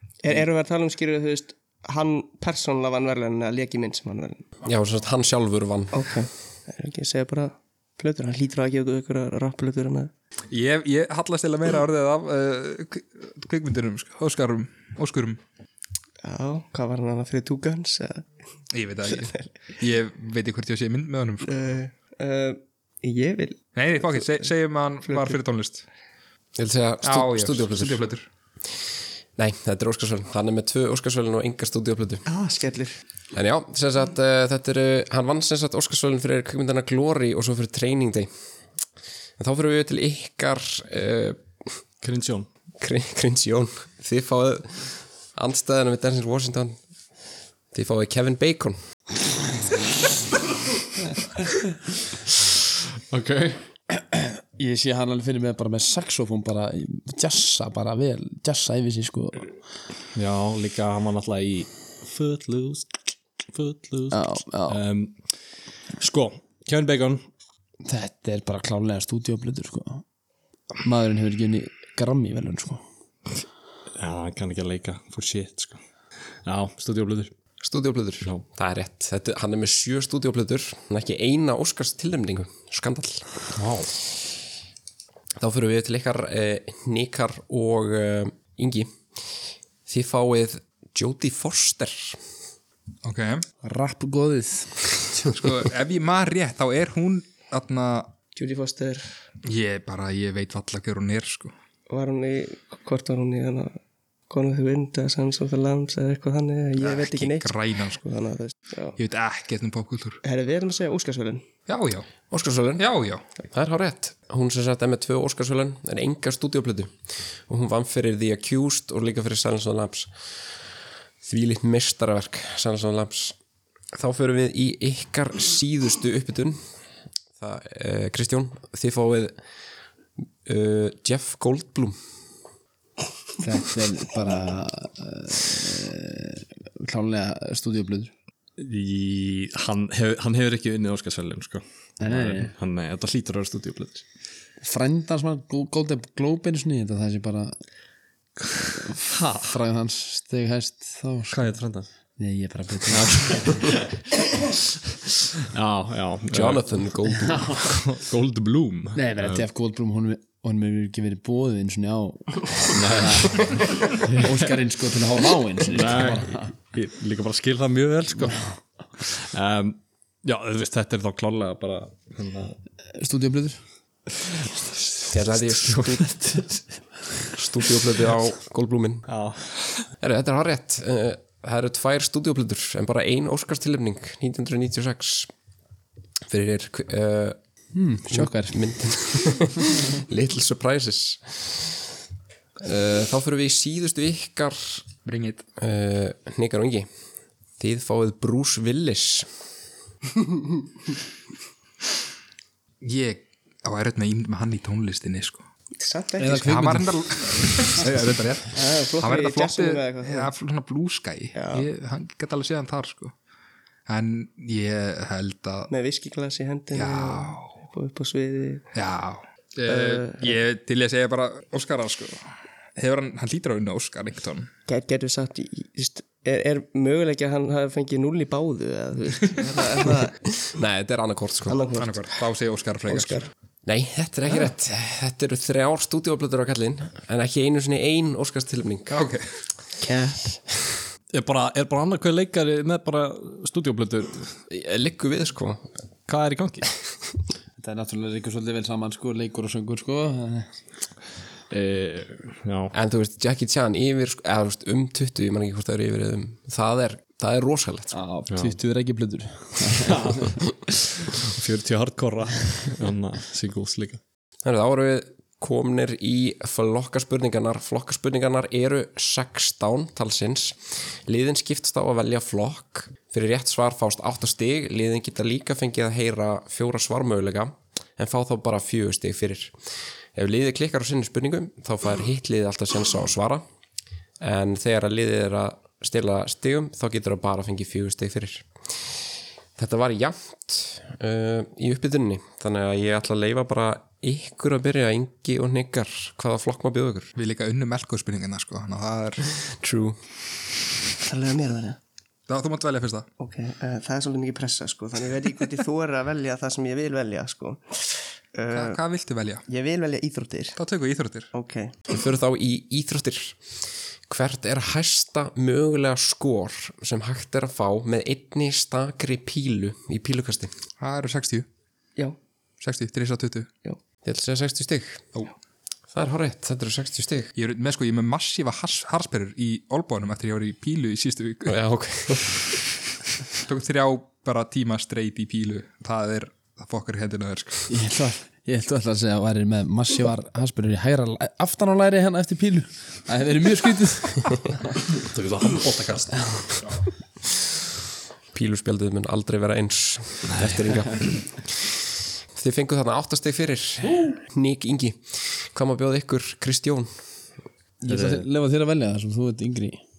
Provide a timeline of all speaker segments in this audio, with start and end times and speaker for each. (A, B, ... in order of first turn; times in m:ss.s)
0:00.2-0:04.5 A
0:04.6-0:06.2 B
0:05.9-0:10.1 A
0:10.5-0:15.4 C
0:16.2-0:18.3 A
0:18.7-0:21.6 C
0:19.1-0:19.5 A
0:21.4-0:23.6 A
0:23.8-0:25.8 C
0:25.0-0:25.4 A
0:26.6-0:28.0 B
0:27.0-0:28.3 C
0:29.4-0:32.2 B
0:32.3-0:33.0 A
0:33.3-0:38.3 B
0:39.4-0:41.8 B
0:42.0-0:42.5 D
0:42.8-0:46.8 B
0:47.7-0:48.8 B
0:53.1-0:53.6 D
0:53.9-0:59.5 E
1:00.2-1:05.2 D
1:04.1-1:04.8 E
1:06.0-1:07.2 D
1:07.8-1:10.0 E
1:10.8-1:12.8 E
1:14.0-1:15.8 D
1:16.4-1:17.3 D
1:17.6-1:23.4 B
1:23.5-1:23.9 D
1:25.4-1:29.0 B
1:29.9-1:32.2 B
1:33.0-1:33.5 C
1:33.6-1:35.2 E
1:35.3-1:38.1 C
1:38.4-1:39.1 A
1:39.4-1:41.5 C
1:41.9-1:43.8 A
1:44.3-1:49.0 A
1:46.8-1:48.0 C
1:49.0-1:50.2 C
1:50.2-1:51.4 A
1:51.7-1:52.1 C
1:52.3-1:52.8 B
1:52.8-1:53.2 C
1:53.4-1:57.0 B
1:57.5-2:00.1 B
2:01.2-2:03.4 B
2:03.9-2:06.6 B
2:07.4-2:09.4 B
2:10.5-2:12.0 B
2:13.4-2:18.1 E
2:18.6-2:24.0 D
2:22.0-2:22.5 E
2:24.6-2:27.6 E
2:28.4-2:29.6 D
2:28.7-2:31.5 E
2:31.3-2:31.9 D
2:32.2-2:33.7 E
2:32.9-2:33.9 D
2:35.4-2:36.8 D
2:36.3-2:37.7 B
2:37.2-2:37.7 E
2:37.6-2:39.4 D
2:39.0-2:46.5 E
2:42.7-2:44.6 D
2:45.6-2:52.6 D
2:52.9-2:53.6 E
2:55.0-2:56.6 D
2:55.1-2:56.1 B
2:57.3-2:59.1 B
2:59.1-2:59.9 D
3:00.0-3:05.3 B
3:06.3-3:07.4 B
3:07.7-3:08.8 E
3:08.1-3:11.8 B
3:12.6-3:14.9 B
3:15.0-3:15.4 C
3:15.6-3:16.9 B
3:17.6-3:19.3 B
3:22.8-3:25.4 C
3:25.8-3:26.5 A
3:26.2-3:27.7 E
3:26.3-3:33.1 C
3:28.5-3:30.3 A
3:31.4-3:31.7 A
3:33.9-3:35.7 C
3:35.7-3:38.7 A
3:36.7-3:37.6 C
3:38.7-3:44.5 C
3:39.7-3:40.4 A
3:44.7-3:50.2 A
3:50.5-3:51.6 B
3:51.5-3:52.1 A
3:51.8-3:53.3 C
3:52.9-3:53.3 A
3:53.6-3:59.0 B
3:58.9-3:59.3 C
3:59.8-4:00.7 A
4:01.1-4:04.4 D
4:04.5-4:05.7 B
4:06.1-4:06.8 D
4:07.6-4:10.5 E
4:11.5-4:12.7 D
4:12.7-4:17.9 B
4:17.9-4:20.4 E
4:18.3-4:18.6 D
4:19.7-4:24.0 D
4:24.4-4:39.5 B
4:40.2-4:43.4 B
4:44.2-4:48.5 B
4:49.6-4:57.1 B
4:57.2-4:59.2 C
4:59.3-5:00.0 B
5:01.0-5:01.8 A
5:02.3-5:03.1 C
5:03.2-5:08.8 A
5:08.5-5:09.4 C
5:09.5-5:10.6 A
5:10.6-5:11.3 C
5:11.3-5:11.7 A
5:11.9-5:13.4 B
5:14.1-5:20.5 B
5:20.8-5:21.5 C
5:22.6-5:23.5 C
5:24.0-5:25.0 B
5:25.9-5:27.3 B
5:27.4-5:31.6 C
5:31.5-5:32.6 B
5:33.4-5:37.7 C
5:37.7-5:44.6 E
5:45.0-5:46.4 D
5:46.2-5:46.5 E
5:48.3-5:51.7 B
5:50.2-5:51.0 D
5:52.3-5:56.9 B
5:57.8-5:59.8 E
5:57.9-5:58.3 D